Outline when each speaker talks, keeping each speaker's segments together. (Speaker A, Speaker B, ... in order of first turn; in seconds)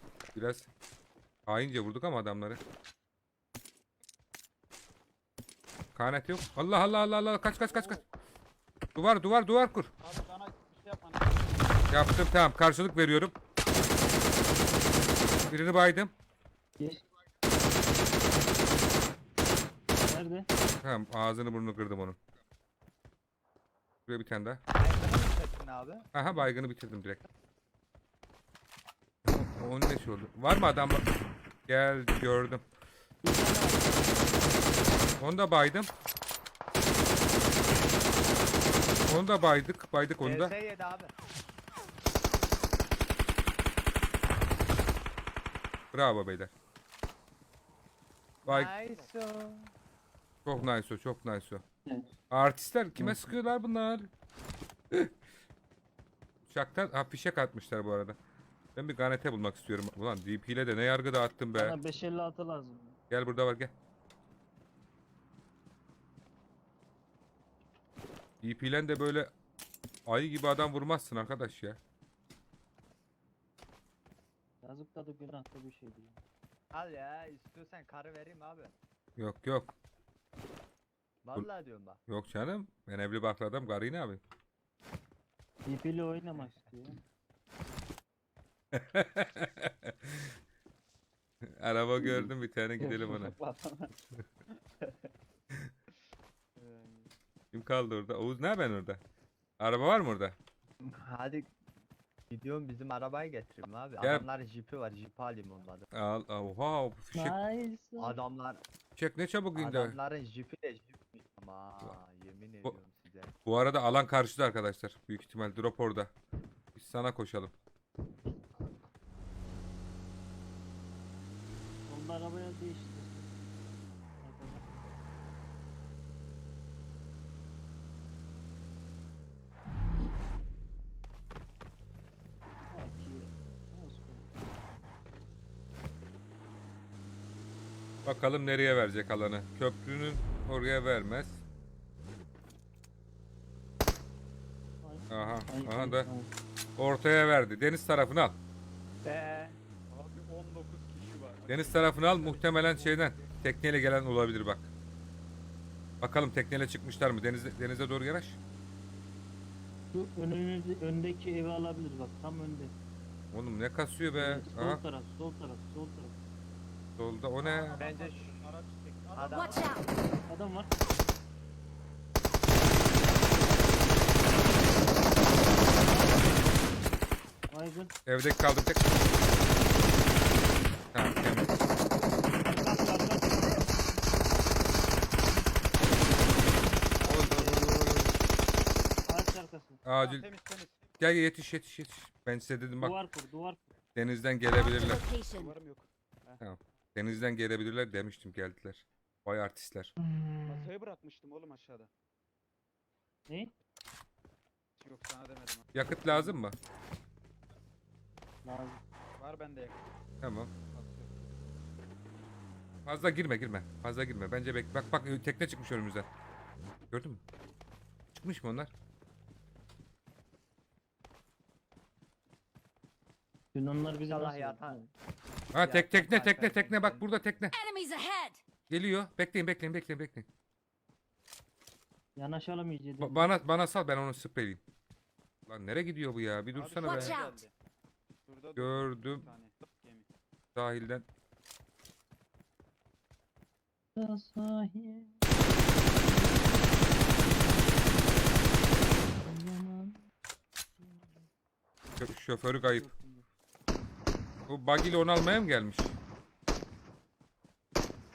Speaker A: 0.3-0.7, 1.5-2.6, 5.9-8.0, 8.9-9.9, 11.9-13.3, 15.5-16.1, 20.8-22.2, 24.1-24.6, 26.1-27.2, 29.3-31.1, 31.7-32.6, 35.2-35.9, 39.1-40.5, 45.9-46.5, 48.5-48.7, 50.5-51.6, 52.3-54.1, 56.5-58.2, 58.7-61.8, 63.1-63.7, 68.4-69.3, 70.1-71.8, 79.2-79.7, 82.1-84.2, 88.7-90.3, 91.6-93.3, 97.5-99.0, 99.6-100.4, 104.0-104.3, 105.9-107.4, 109.0-110.0, 113.5-116.1, 116.7-117.5, 138.0-141.4, 145.1-146.1, 146.8-148.4, 151.5-154.7, 156.0-158.4, 163.3-164.8, 167.0-167.8, 178.1-178.9, 180.9-181.5, 187.0-188.1, 189.8-190.3, 191.0-193.0, 193.9-195.1, 196.4-199.9, 205.7-206.6, 210.2-210.5, 212.8-216.1, 216.9-217.2, 218.1-218.7, 225.5-227.6, 228.7-230.3, 233.0-234.6, 235.5-237.2, 238.6-239.3, 240.6-241.1, 252.0-252.9, 254.5-255.9
Speaker B: 7.7-8.0, 10.0-11.9, 48.9-49.1, 92.8-93.9, 96.5-97.1, 149.9-152.9, 167.4-169.7, 187.0-187.7, 189.9-190.8, 195.3-196.4, 200.4-201.9, 204.8-205.9, 209.2-209.9, 210.7-211.1, 236.5-237.5, 238.2-240.1
Speaker C: 20.0-20.5, 33.2-34.5, 51.9-52.1, 53.0-53.3, 61.5-63.0, 74.6-76.2, 85.7-87.0, 107.1-108.2, 121.9-123.3, 124.2-124.7, 132.7-134.2, 144.8-146.3, 159.9-162.7, 164.1-166.1, 170.3-170.7, 175.8-176.3, 177.5-177.9, 182.4-183.8, 186.9-187.4, 189.1-189.8, 192.8-193.8, 203.3-203.5, 206.1-206.4, 208.4-208.8, 223.5-224.6, 232.2-233.3, 243.9-247.8, 248.7-250.0, 250.8-251.3, 252.4-253.3
Speaker D: 24.7-26.1, 40.2-41.1, 48.4-49.7, 76.7-78.7, 81.2-82.0, 100.8-101.5, 102.3-105.9, 108.0-108.6, 109.5-113.3, 149.0-149.6, 152.4-152.9, 167.8-168.4, 169.1-169.8, 200.2-200.7, 224.1-224.9, 225.6-227.5
Speaker E: 169.4-169.8, 194.5-195.5, 227.5-228.4, 236.8-237.4